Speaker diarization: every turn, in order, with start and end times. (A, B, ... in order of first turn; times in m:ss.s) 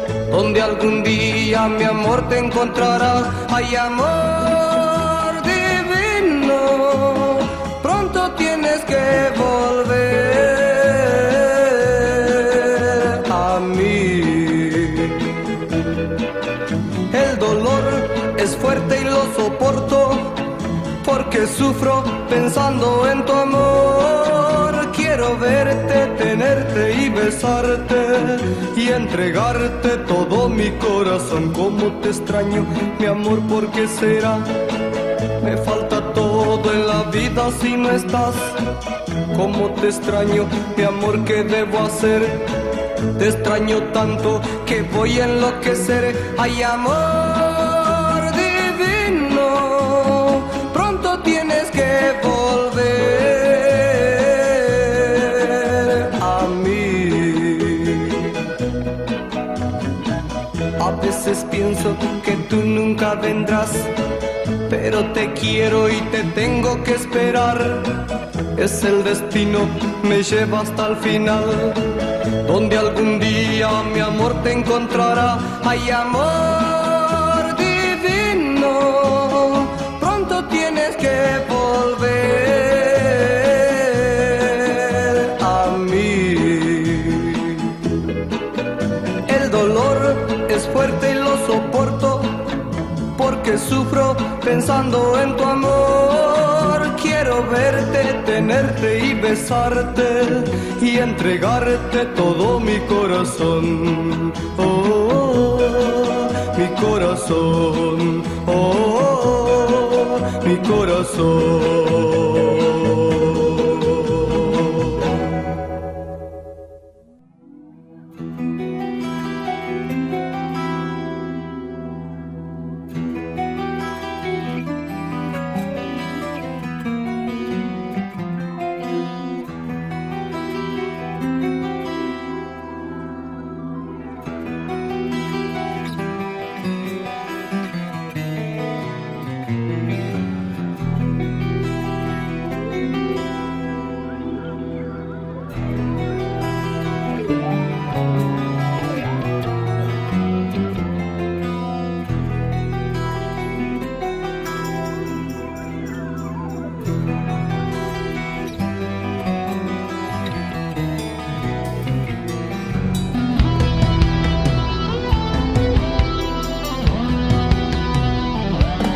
0:00.3-0:15.3 A
0:17.1-0:20.5 A
0:21.0-0:34.5 A
0:35.4-0:38.6 A
0:39.3-0:42.5 A
0:43.2-0:58.3 A
1:00.8-1:03.9 A
1:04.7-1:11.9 A
1:12.4-1:27.8 A
1:29.3-1:32.5 A
1:33.2-1:55.1 A